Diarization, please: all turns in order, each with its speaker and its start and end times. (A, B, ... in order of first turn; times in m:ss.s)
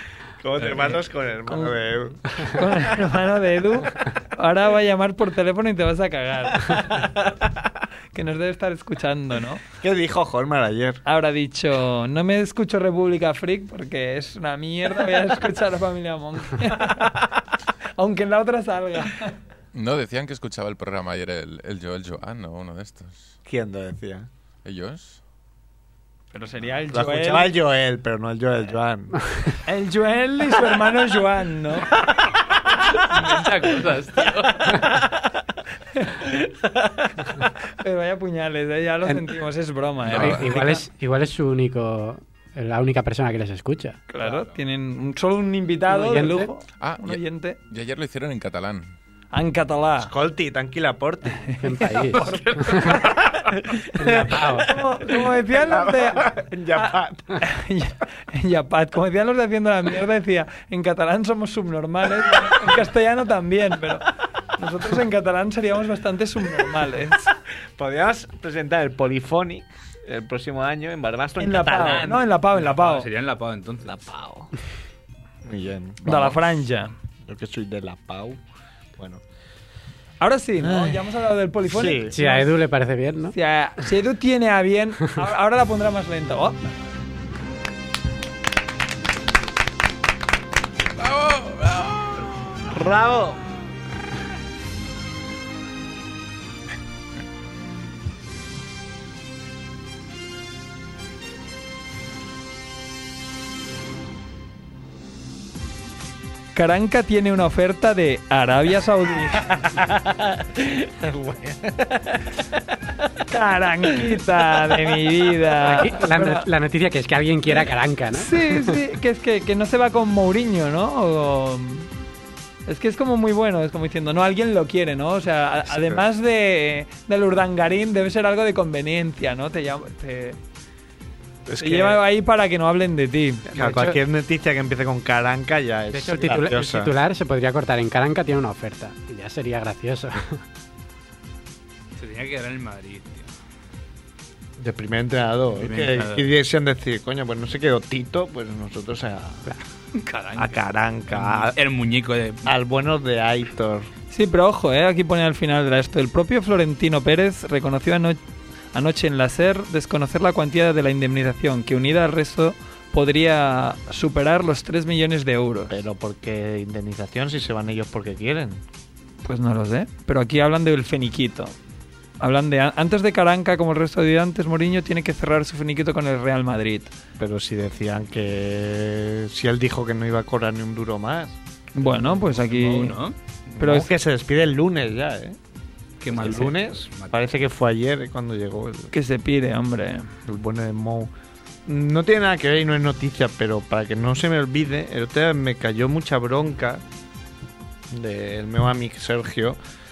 0:00.4-0:02.7 A
0:00.6-0:00.9 B
0:01.5-0:01.8 C
0:02.4-0:07.1 C
0:06.9-0:07.6 A
0:08.1-0:09.6 C
0:09.8-0:11.0 A
0:11.1-0:17.0 C
0:16.8-0:17.2 A
0:18.0-0:19.4 C
0:19.7-0:23.3 D
0:23.4-0:24.3 A
0:24.6-0:25.2 D
0:26.3-0:27.5 C
0:26.9-0:29.5 A
0:29.7-0:31.9 C
0:32.9-0:33.4 A
0:33.0-0:34.8 B
0:34.2-0:35.2 A
0:36.0-0:36.2 C
0:36.7-0:37.0 A
0:37.8-0:40.8 C
0:39.1-0:39.3 E
0:40.1-0:40.6 D
0:40.1-0:44.0 E
0:44.1-0:47.6 C
0:45.9-0:46.5 E
0:46.8-0:48.9 D
0:49.3-0:50.1 C
0:50.0-0:51.5 A
0:51.5-0:53.1 C
0:51.6-0:53.0 E
0:52.8-0:57.4 A
0:54.0-0:54.7 E
0:54.6-1:07.3 C
1:07.8-1:12.3 A
1:11.4-1:13.1 C
1:12.6-1:14.0 B
1:13.8-1:14.5 A
1:15.4-1:16.5 A
1:16.0-1:16.9 C
1:17.3-1:18.4 A
1:20.2-1:22.5 C
1:20.6-1:21.0 A
1:21.7-1:22.2 A
1:22.1-1:23.4 E
1:23.3-1:26.6 C
1:32.7-1:33.4 A
1:46.6-1:49.4 C
1:49.4-1:52.6 A
1:53.3-1:56.5 C
1:55.7-1:58.8 E
1:58.2-2:01.9 C
2:02.7-2:10.4 C
2:05.7-2:06.0 A
2:11.5-2:12.0 A
2:11.6-2:13.5 C
2:13.5-2:14.0 E
2:13.5-2:16.9 A
2:15.9-2:20.4 E
2:22.0-2:23.3 B
2:24.6-2:29.5 A
2:25.6-2:26.3 B
2:30.0-2:32.5 B
2:30.4-2:31.5 A
2:32.5-2:33.9 A
2:34.1-2:38.2 C
2:38.7-2:45.8 C
2:45.7-2:48.6 A
2:49.2-2:51.5 C
2:52.2-2:56.9 C
2:57.2-3:01.4 A
3:01.8-3:03.0 C
3:02.0-3:03.2 B
3:03.6-3:05.4 A
3:03.6-3:03.9 C
3:06.0-3:07.3 B
3:06.1-3:08.9 A
3:08.9-3:10.1 C
3:10.3-3:11.1 A
3:11.7-3:16.8 A
3:17.9-3:19.6 A